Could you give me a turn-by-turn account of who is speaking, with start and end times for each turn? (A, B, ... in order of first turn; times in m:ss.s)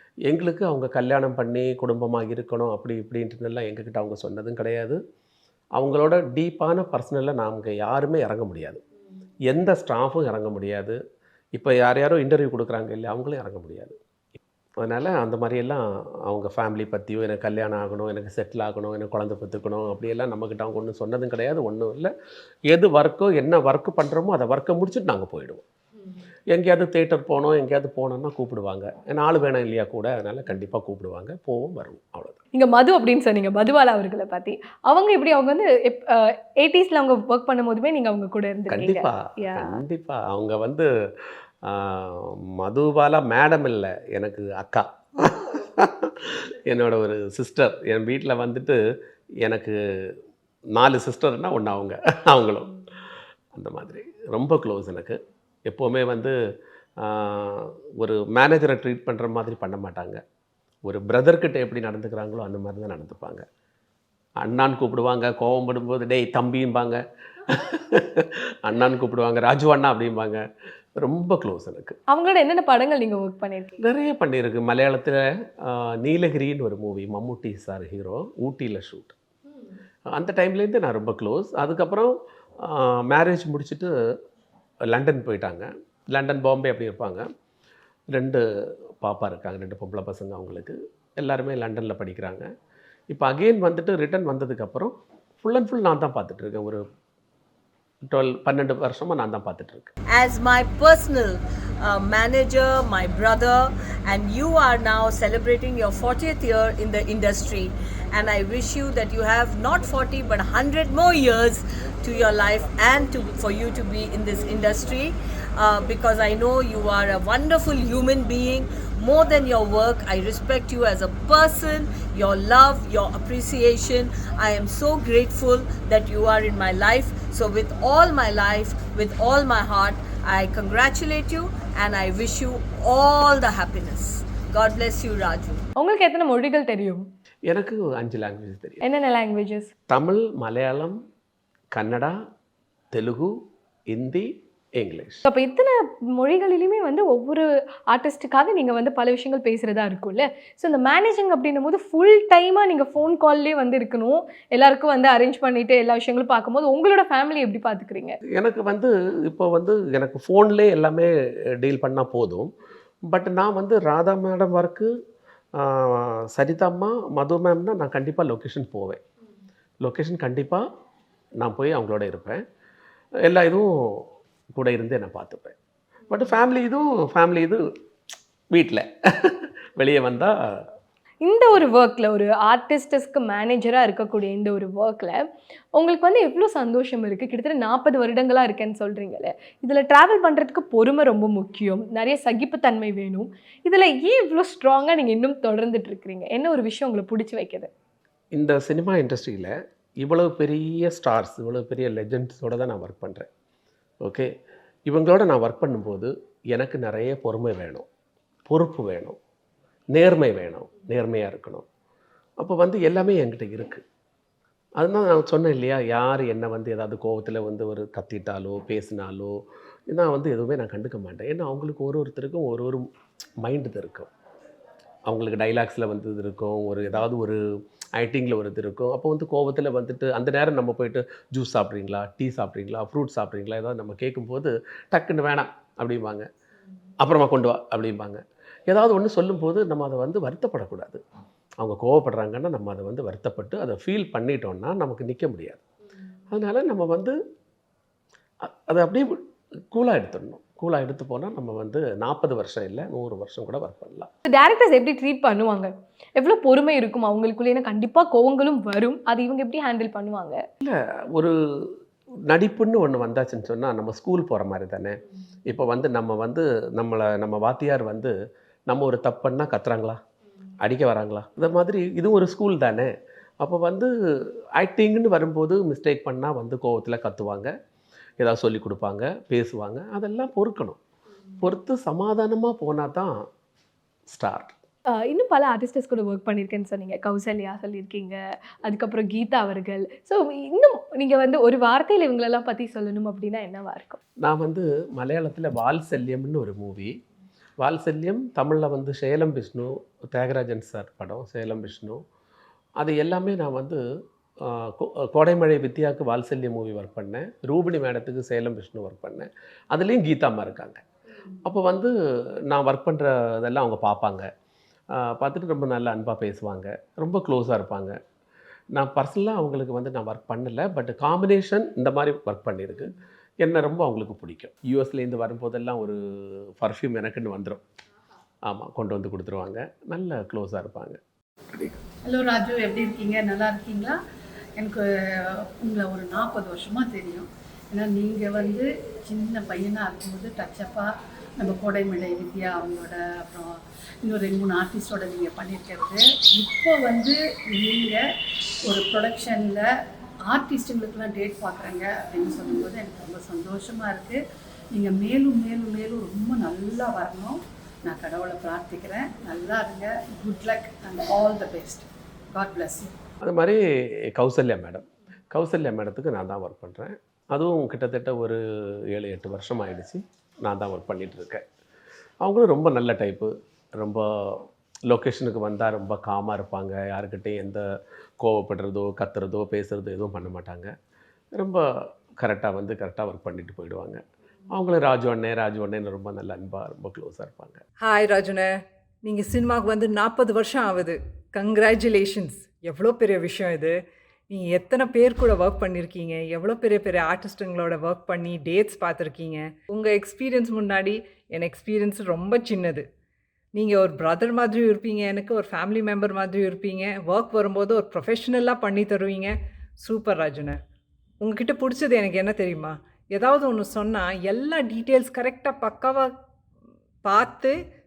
0:00.2-0:05.0 A
0:05.8-0:08.8 A
0:09.5-0:11.0 A
0:11.5-0:14.0 A
0:14.8-0:22.1 A
0:22.7-0:25.6 A
0:26.5-0:32.4 A
0:32.5-0:39.8 B
0:38.7-0:48.8 A
0:49.4-0:50.2 A
0:50.7-0:52.8 A
0:53.5-0:56.4 A
0:57.0-1:00.2 A
1:00.9-1:03.4 A
1:04.4-1:10.4 A
1:11.0-1:12.0 A
1:12.1-1:13.8 B
1:13.8-1:19.2 A
1:20.1-1:23.9 A
1:24.9-1:27.3 A
1:28.1-1:28.4 A
1:29.0-1:32.5 A
1:33.1-1:36.8 A
1:38.1-1:39.9 A
1:40.1-2:15.6 C
2:15.8-2:17.0 B
2:17.5-2:18.8 A
2:18.8-2:19.7 B
2:19.9-2:21.0 A
2:21.7-2:22.2 A
2:22.9-2:23.3 A
2:23.9-2:25.2 A
2:25.2-2:38.2 B
2:38.3-2:42.5 A
2:43.0-2:44.9 A
2:45.5-2:49.0 A
2:49.8-2:50.6 A
2:51.4-2:52.4 A
2:53.2-2:55.6 A
2:56.1-2:57.6 A
2:58.5-3:00.7 A
3:01.2-3:05.2 B
3:05.8-3:17.7 B
3:18.3-3:23.3 A
3:24.0-3:24.3 A
3:24.9-3:27.8 A
3:28.5-3:29.2 A
3:29.9-3:31.6 A
3:32.4-3:33.8 A
3:34.8-3:39.4 A
3:39.9-3:42.9 A
3:43.4-3:44.1 A
3:45.1-3:47.4 A
3:47.9-3:56.3 A
3:57.0-4:01.0 A
4:01.6-4:05.6 A
4:06.3-4:07.2 A
4:08.4-4:14.1 A
4:14.2-4:20.4 B
4:20.6-4:21.8 A
4:22.3-4:28.1 A
4:28.7-4:30.0 A
4:30.6-4:33.9 A
4:34.6-4:37.5 A
4:38.2-4:40.8 A
4:41.4-4:43.1 A
4:44.1-4:44.6 A
4:44.9-4:54.0 B
4:54.2-4:56.9 A
4:57.6-5:02.0 A
5:02.8-5:03.8 A
5:04.4-5:10.8 A
5:11.4-5:11.9 A
5:12.5-5:14.3 A
5:14.9-5:18.0 A
5:18.7-5:27.6 A
5:28.4-5:31.8 A
5:32.0-5:34.0 D
5:34.6-5:48.0 D
5:48.7-5:49.7 D
5:50.3-5:54.2 D
5:54.7-6:02.9 D
6:03.2-6:03.6 A
6:04.1-6:11.4 A
6:12.2-6:17.6 A
6:18.2-6:20.7 A
6:21.3-6:21.6 A
6:22.2-6:27.6 A
6:27.8-6:28.5 E
6:29.0-6:33.8 E
6:34.3-6:42.9 E
6:43.5-6:50.6 E
6:51.2-6:56.1 E
6:57.0-6:57.6 E